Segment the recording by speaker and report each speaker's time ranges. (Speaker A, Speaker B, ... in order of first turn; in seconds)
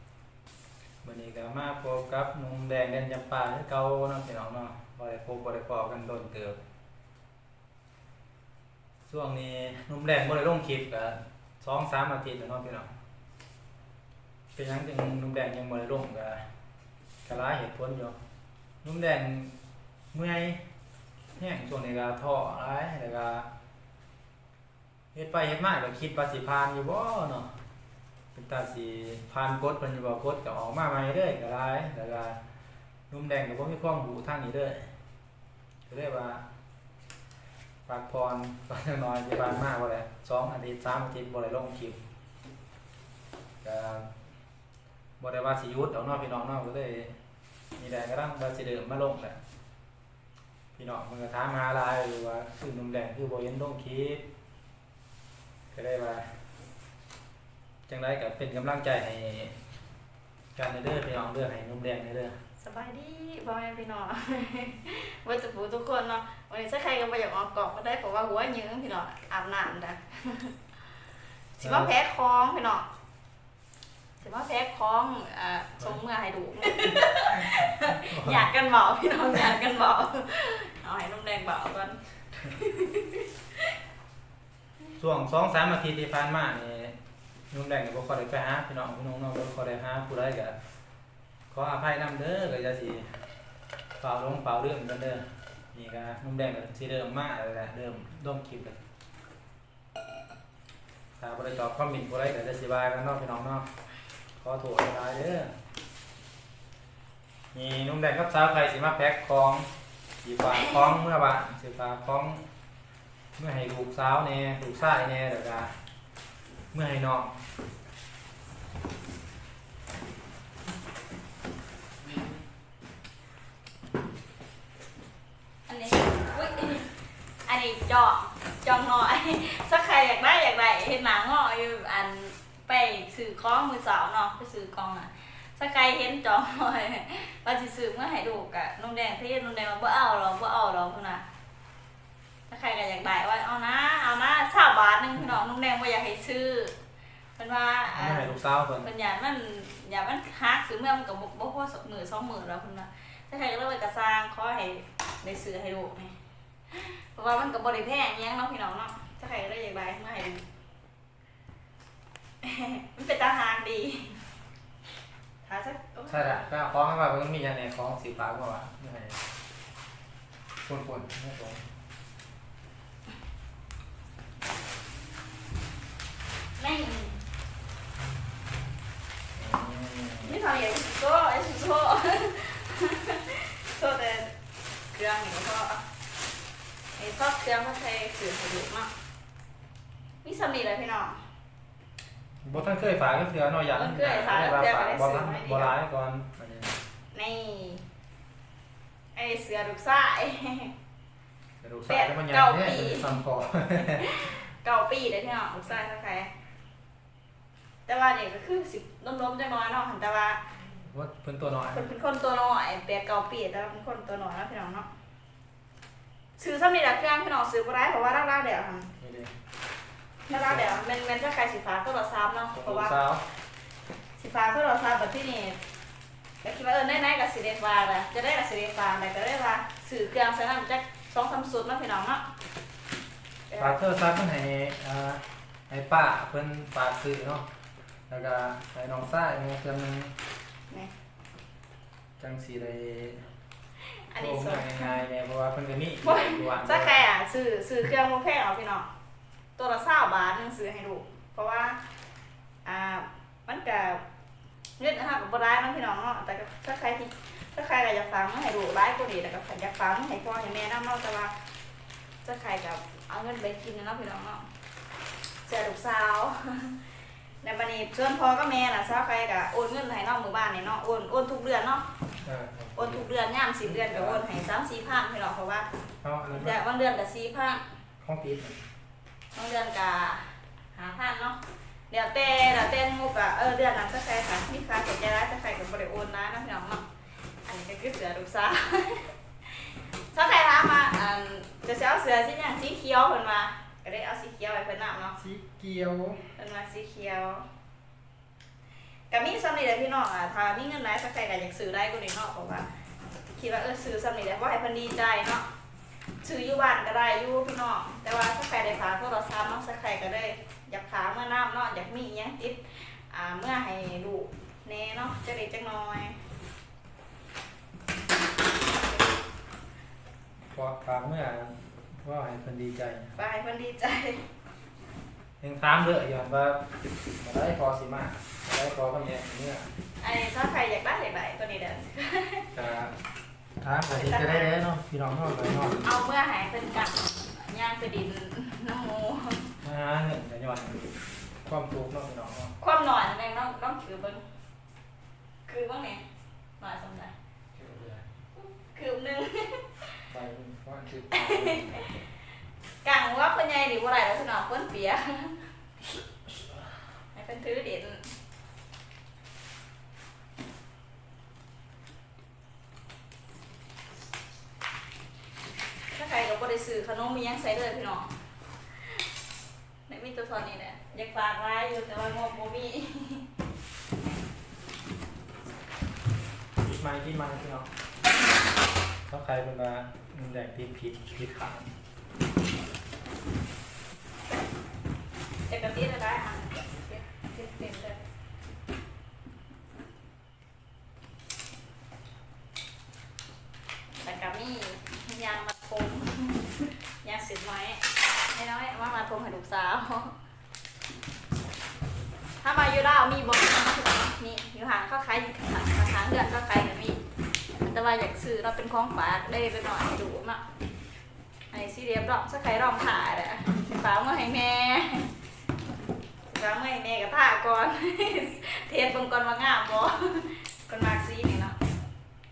Speaker A: 1.0-6.6, 9.1-12.9, 14.5-16.4, 17.2-18.2, 18.8-19.5, 20.1-20.6, 21.4-23.5, 25.1-27.5, 28.3-32.4, 33.1-34.9, 35.9-36.4, 37.9-42.0, 43.6-44.1, 45.2-47.1, 47.8-49.4, 50.7-54.2, 55.7-56.3, 57.9-59.6, 60.5-62.4, 71.6-71.9, 77.9-78.5, 85.0-87.0, 87.5-90.6, 91.5-93.2, 94.0-95.2, 95.7-98.8, 101.2-103.7, 104.4-105.5, 107.5-109.7, 110.2-112.4, 113.4-115.8, 116.7-117.3, 147.9-148.9, 166.1-169.2, 170.6-171.6, 179.4-180.4, 192.4-196.8, 201.6-204.2, 210.7-211.9, 219.0-219.3, 220.3-220.7, 222.5-223.3, 233.6-237.5, 238.1-240.1, 242.2-243.3, 244.2-247.0, 272.2-273.1, 273.6-274.3, 276.0-276.6, 278.0-278.6, 295.2-296.3, 320.5-323.2, 325.4-326.6, 327.2-329.7, 332.5-332.9, 333.6-335.9, 339.6-340.9, 341.4-342.5, 347.6-348.1, 350.1-351.9, 376.6-377.7, 379.1-381.7
Speaker B: 62.6-70.6, 71.6-72.9, 74.2-83.8, 125.7-126.9, 127.5-141.2, 142.5-146.8, 147.4-156.2, 156.7-160.4, 162.4-164.2, 165.4-166.6, 176.6-177.2, 180.2-184.3, 184.9-185.8, 187.0-188.9, 190.2-191.2, 193.7-195.7, 197.1-197.8, 199.2-200.7, 201.9-203.2, 203.8-206.3, 207.9-210.4, 211.7-214.9, 216.4-218.9, 220.3-223.0, 224.2-225.6, 226.4-232.2, 233.5-233.8, 244.1-245.0, 246.0-248.9, 249.6-251.8, 252.7-254.0, 254.8-261.3, 262.2-264.4, 265.5-266.8, 267.4-271.9, 272.8-275.7, 276.3-277.6, 279.4-286.8, 287.4-295.2, 296.4-297.5, 299.1-302.7, 303.3-305.4, 306.2-316.2, 323.1-324.3, 330.0-332.5, 333.9-334.5, 335.8-339.6, 342.6-344.2, 345.5-346.0, 346.6-347.1, 348.4-350.0, 351.1-352.0, 352.8-355.5, 357.1-358.1, 365.9-368.2, 369.9-373.3, 385.5-388.0, 394.0-400.1, 402.4-407.0, 407.6-410.4, 411.5-415.1, 416.3-421.6